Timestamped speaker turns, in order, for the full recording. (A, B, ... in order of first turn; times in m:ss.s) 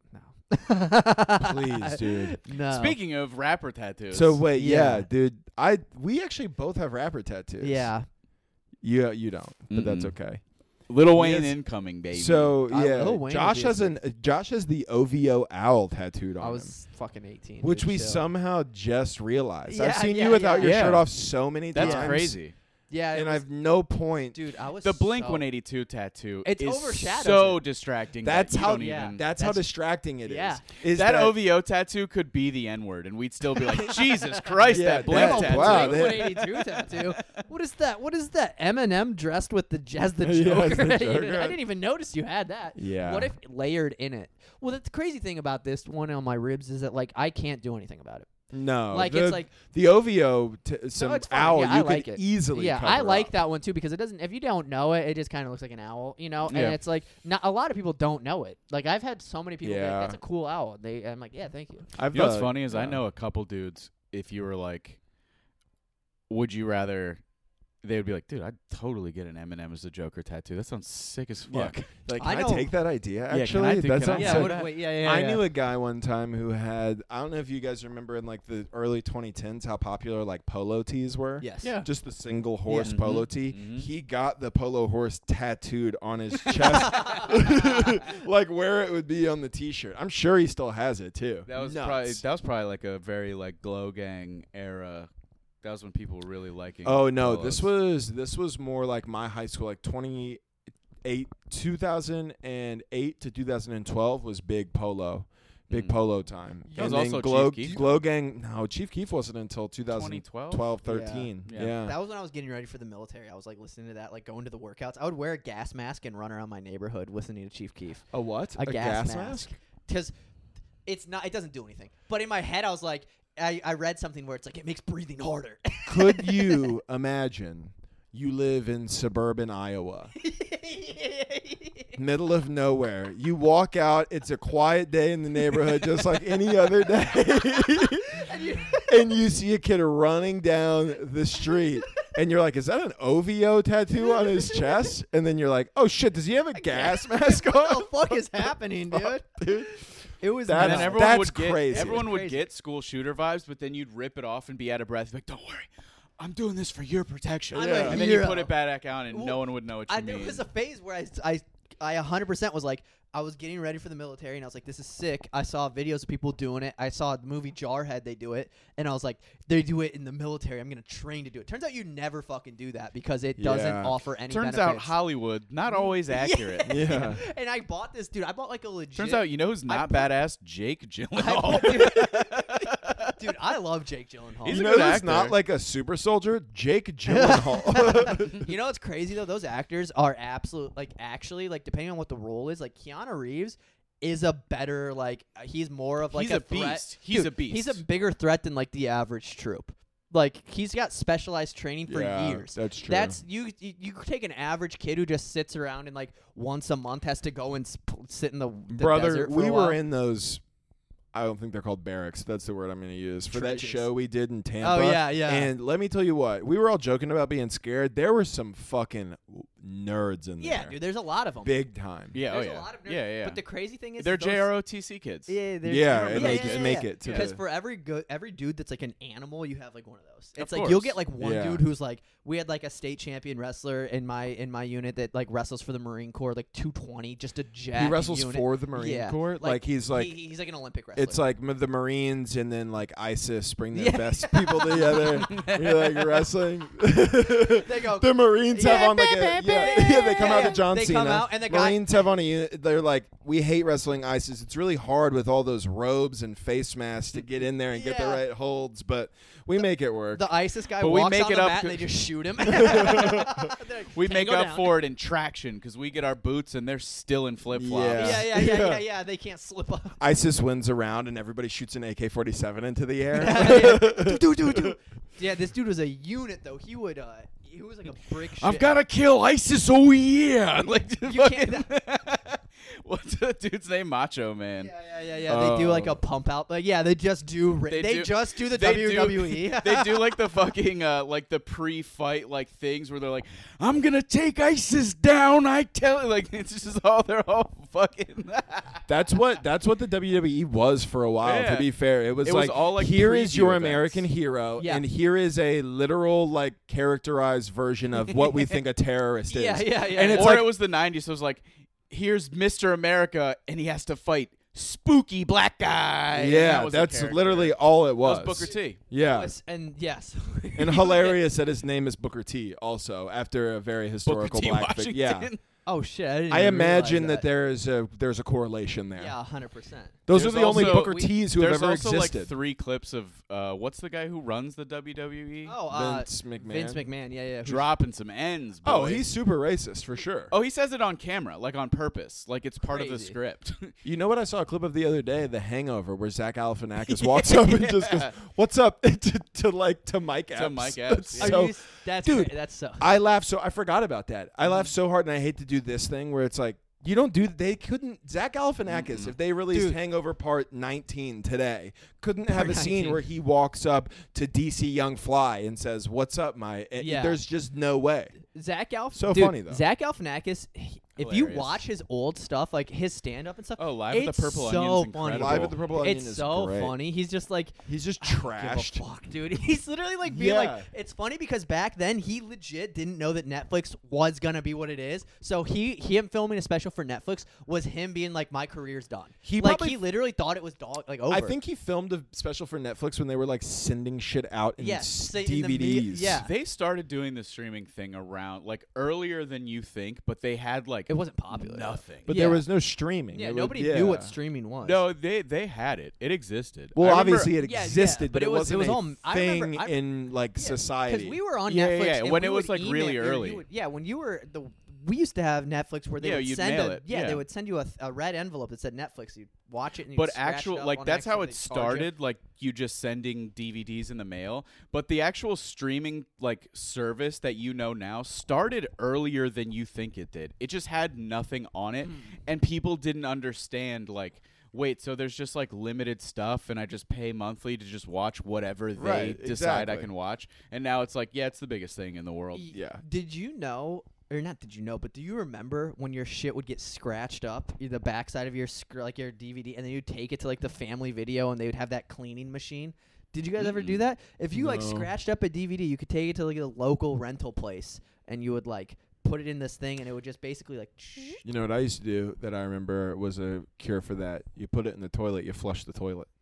0:00.1-0:03.0 A
0:01.4-0:02.4 B
0:02.7-0:04.4 C
0:04.1-0:07.9 B
0:04.5-0:05.1 A
0:07.6-0:08.1 A
0:08.8-0:10.4 B
0:09.7-0:10.2 C
0:10.9-0:12.6 C
0:11.1-0:11.6 B
0:12.1-0:16.7 B
0:12.7-0:14.0 A
0:16.4-0:18.2 A
0:17.6-0:22.4 B
0:19.7-0:20.8 A
0:20.6-0:21.1 C
0:21.7-0:22.5 C
0:21.8-0:22.2 A
0:22.9-0:23.5 A
0:23.1-0:24.4 B
0:24.3-0:25.5 A
0:24.8-0:29.2 C
0:26.4-0:27.6 A
0:28.2-0:31.4 B
0:28.6-0:29.7 A
0:30.2-0:30.6 A
0:30.9-0:37.2 C
0:33.7-0:48.3 A
0:34.7-0:36.5 B
0:40.2-0:41.6 B
0:42.8-0:43.3 B
0:48.5-0:53.3 B
0:48.9-0:49.5 A
0:51.0-1:01.9 A
0:56.5-0:56.8 B
0:59.6-1:00.2 B
1:02.0-1:03.0 B
1:02.1-1:05.0 C
1:06.3-1:07.2 C
1:07.8-1:11.8 C
1:11.5-1:32.2 B
1:12.2-1:12.7 A
1:13.3-1:14.7 C
1:14.1-1:15.4 A
1:21.4-1:21.8 A
1:22.8-1:23.9 C
1:26.6-1:28.0 A
1:31.5-1:35.1 C
1:35.6-1:37.7 C
1:36.8-1:40.4 B
1:41.0-1:52.0 B
1:45.7-1:46.0 C
1:46.7-1:47.9 C
1:49.9-1:50.8 C
1:50.8-1:51.3 A
1:51.4-1:51.8 C
1:51.8-1:58.1 A
1:58.1-1:59.6 B
1:58.6-2:00.1 A
2:00.9-2:06.7 A
2:05.9-2:10.1 B
2:10.2-2:12.0 A
2:12.0-2:29.8 B
2:17.3-2:19.0 A
2:24.0-2:24.9 A
2:26.6-2:31.1 A
2:30.5-2:32.1 B
2:30.6-2:35.7 C
2:31.7-2:32.4 A
2:36.2-2:40.4 C
2:37.5-2:38.1 B
2:37.5-2:38.5 A
2:39.1-2:55.0 A
2:53.4-2:54.0 B
2:54.3-2:57.1 C
2:55.7-3:00.1 A
2:56.7-2:57.2 B
2:59.0-3:03.2 C
3:01.2-3:04.8 A
3:04.4-3:05.4 C
3:04.5-3:08.5 B
3:07.1-3:29.8 A
3:16.1-3:17.8 C
3:21.9-3:23.2 B
3:28.7-3:30.4 B
3:31.1-3:40.8 B
3:33.3-3:33.9 A
3:34.6-3:35.5 A
3:40.4-3:41.6 A
3:41.4-3:42.2 B
3:42.1-3:43.4 C
3:42.3-3:44.5 A
3:44.0-3:45.4 C
3:45.3-4:01.2 A
3:45.6-3:47.4 B
3:45.9-3:47.3 C
3:50.4-3:51.0 C
3:51.2-3:51.6 B
3:57.7-4:00.2 B
4:01.0-4:20.2 B
4:03.7-4:05.5 A
4:05.3-4:05.9 C
4:07.5-4:12.0 A
4:17.7-4:18.2 A
4:20.2-4:24.8 A
4:20.8-4:22.0 C
4:22.6-4:23.4 B
4:22.7-4:23.2 C
4:23.9-4:28.3 C
4:27.5-4:28.8 B
4:28.0-4:30.0 A
4:30.0-4:34.8 B
4:33.1-4:38.7 A
4:38.4-4:44.7 C
4:41.0-4:41.7 A
4:44.6-4:50.2 A
4:45.3-4:46.0 B
4:47.7-4:58.8 C
4:58.9-5:10.5 B
5:01.2-5:01.7 C
5:02.2-5:04.0 C
5:04.6-5:04.8 A
5:09.3-5:10.4 A
5:10.1-5:18.8 C
5:16.1-5:19.3 B
5:18.9-5:21.2 A
5:20.6-5:25.3 B
5:24.1-5:25.4 C
5:25.7-5:27.3 A
5:26.3-5:29.2 B
5:29.0-5:31.1 A
5:30.1-5:32.3 B
5:30.1-5:35.6 C
5:35.5-5:37.7 A
5:35.7-5:36.8 B
5:37.4-5:39.0 C
5:38.6-5:40.3 B
5:40.3-5:43.7 C
5:42.7-5:43.2 A
5:43.8-6:08.2 B
5:47.2-5:48.1 C
5:50.4-5:51.4 C
5:51.2-5:52.9 A
5:58.7-5:59.1 C
5:59.5-5:59.8 A
6:02.3-6:03.0 A
6:06.8-6:07.2 A
6:08.3-6:31.4 A
6:08.9-6:09.6 B
6:11.0-6:11.6 C
6:13.6-6:15.6 C
6:15.1-6:16.8 B
6:17.7-6:18.8 B
6:20.0-6:20.7 B
6:29.2-6:29.8 B
6:31.1-6:36.2 B
6:34.6-6:36.3 A
6:36.1-6:42.2 C
6:40.9-6:42.4 A
6:42.0-6:44.1 B
6:43.1-6:44.8 A
6:44.6-6:47.3 C
6:46.8-6:51.2 B
6:47.4-6:49.8 A
6:50.4-7:01.9 A
6:51.5-6:53.4 C
6:56.0-6:57.2 C
6:59.9-7:22.5 C
7:18.8-7:19.9 B
7:22.3-7:41.2 A
7:22.5-7:22.8 B
7:33.4-7:33.8 C
7:34.3-7:34.9 B
7:41.2-7:46.1 B